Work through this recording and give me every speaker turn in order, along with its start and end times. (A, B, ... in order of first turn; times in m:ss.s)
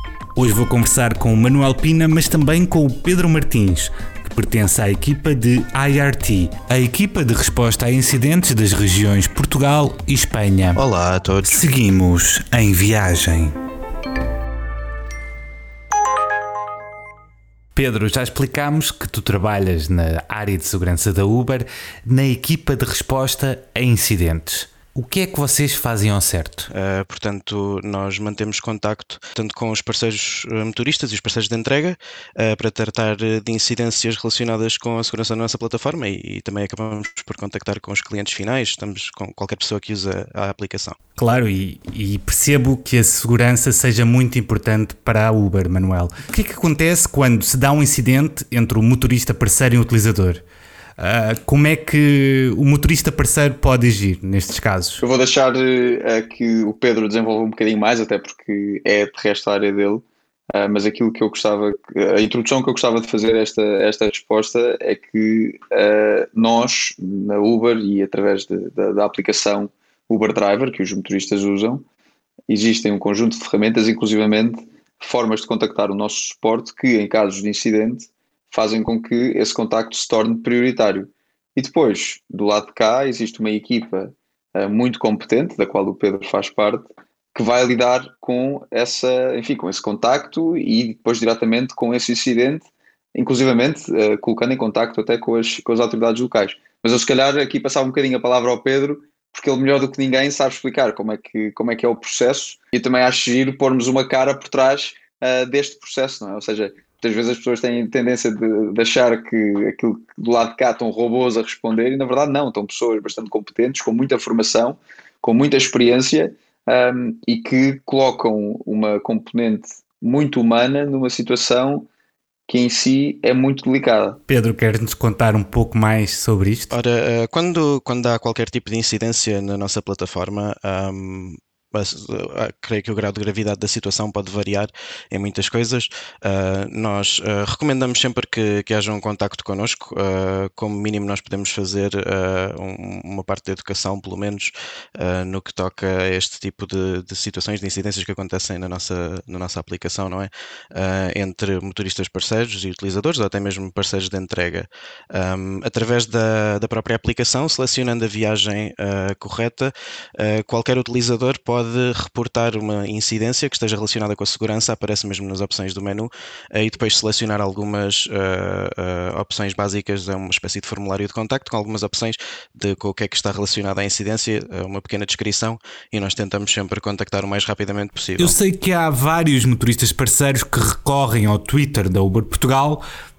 0:00.3-0:10.8 A
0:10.8-0:11.6 B
0:11.4-0:13.5 A
0:17.7-0:26.7 A
0:26.7-0:41.0 B
0:41.2-0:50.4 A
0:51.0-0:55.0 A
0:55.0-1:11.8 C
1:12.5-2:01.9 C
2:02.5-2:04.2 C
2:04.3-2:06.7 A
2:06.7-2:58.4 B
2:58.2-3:02.8 A